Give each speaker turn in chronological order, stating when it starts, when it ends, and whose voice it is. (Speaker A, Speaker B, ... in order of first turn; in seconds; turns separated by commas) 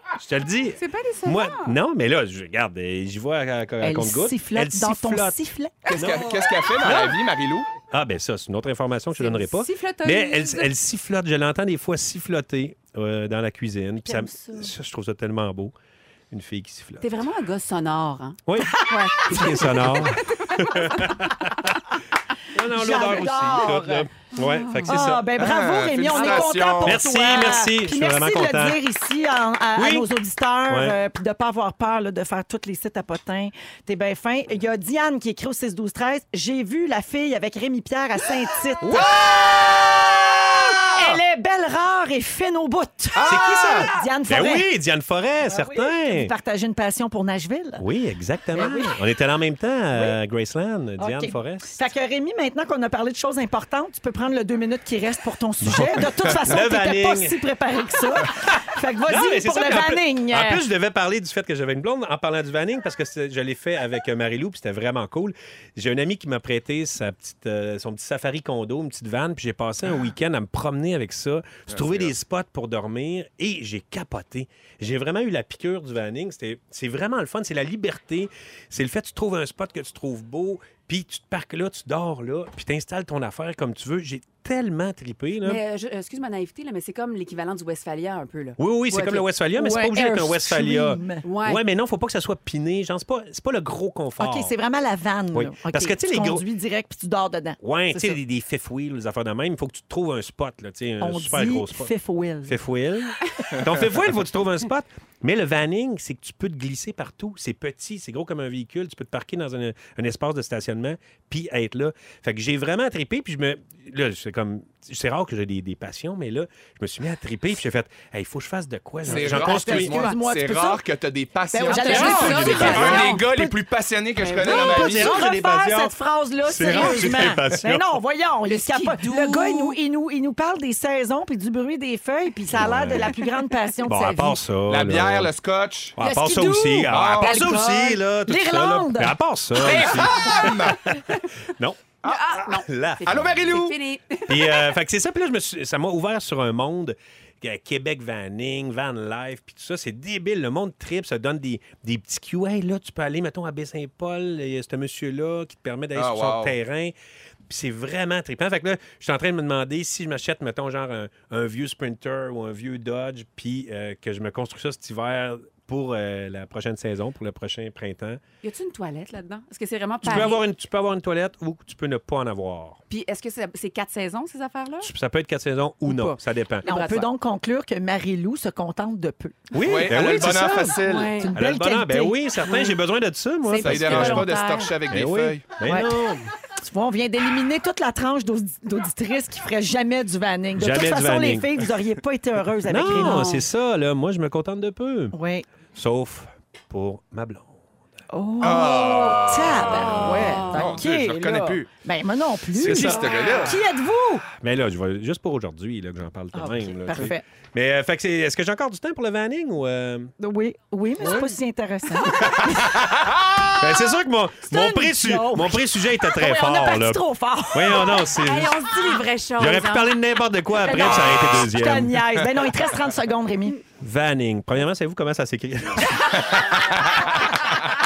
Speaker A: 0.2-5.3, Speaker B: 0.8-1.7, Speaker C: 3.8-5.8, Speaker B: 5.8-6.4, Speaker D: 5.9-7.7, Speaker A: 5.9-7.2, Speaker A: 7.9-15.7, Speaker B: 9.2-10.7, Speaker B: 14.0-14.7, Speaker A: 16.3-17.1, Speaker B: 17.0-21.1, Speaker A: 18.5-21.7, Speaker A: 22.5-25.3, Speaker C: 22.6-24.1, Speaker B: 24.4-24.9, Speaker C: 24.8-39.0, Speaker D: 25.4-27.0, Speaker B: 26.1-26.7, Speaker A: 26.8-28.8, Speaker A: 29.8-30.1, Speaker A: 30.7-30.9, Speaker A: 38.8-39.1, Speaker D: 38.8-41.2, Speaker C: 40.9-44.6, Speaker D: 43.1-43.9, Speaker A: 43.2-46.3, Speaker C: 45.5-47.8, Speaker A: 47.8-51.7, Speaker C: 48.5-48.9, Speaker C: 51.0-60.6, Speaker A: 55.6-57.4, Speaker A: 58.4-85.6, Speaker D: 71.7-72.1, Speaker B: 85.4-89.2, Speaker A: 88.6-94.5, Speaker C: 89.5-91.2, Speaker B: 91.2-91.6, Speaker C: 94.2-98.2, Speaker A: 95.3-96.4, Speaker A: 97.6-101.9, Speaker C: 101.0-102.6, Speaker A: 102.5-120.1, Speaker D: 119.0-125.1, Speaker C: 119.0-120.8, Speaker C: 121.5-123.6, Speaker B: 121.7-123.2, Speaker A: 121.8-123.0, Speaker C: 124.2-134.4, Speaker A: 124.4-125.9, Speaker A: 126.4-127.8, Speaker B: 126.7-127.0, Speaker B: 128.5-129.8, Speaker A: 132.5-133.2, Speaker A: 133.9-135.3, Speaker D: 134.7-136.0, Speaker A: 136.0-140.8, Speaker C: 136.0-140.6, Speaker D: 136.9-137.6, Speaker D: 139.6-140.9, Speaker A: 141.4-141.8, Speaker B: 142.0-144.7, Speaker A: 142.4-143.4, Speaker D: 143.0-143.8, Speaker A: 144.3-156.9, Speaker D: 155.9-156.5, Speaker A: 157.5-168.2, Speaker B: 168.4-170.4, Speaker A: 170.0-172.8, Speaker B: 172.9-174.9, Speaker A: 174.8-176.7, Speaker B: 175.8-177.1, Speaker C: 176.6-179.5, Speaker A: 179.5-180.8, Speaker D: 179.6-181.2, Speaker B: 180.8-181.3, Speaker C: 181.2-182.2, Speaker A: 181.3-184.3, Speaker B: 182.4-182.7, Speaker B: 183.4-184.8, Speaker D: 183.6-185.4, Speaker A: 184.9-186.3, Speaker C: 185.6-186.0, Speaker C: 186.6-193.4, Speaker A: 190.5-191.6, Speaker A: 192.7-195.2, Speaker B: 192.9-193.4, Speaker C: 195.1-195.4, Speaker A: 195.7-197.6, Speaker C: 198.1-204.2, Speaker D: 198.4-201.7, Speaker B: 199.7-200.8, Speaker D: 202.6-203.6, Speaker A: 204.4-210.1, Speaker C: 206.3-207.2, Speaker C: 210.2-212.6, Speaker D: 212.7-213.5, Speaker A: 213.6-218.6, Speaker C: 214.5-218.0, Speaker B: 218.0-219.9, Speaker A: 219.4-222.1, Speaker C: 220.6-223.6, Speaker D: 221.0-221.4, Speaker A: 223.8-226.7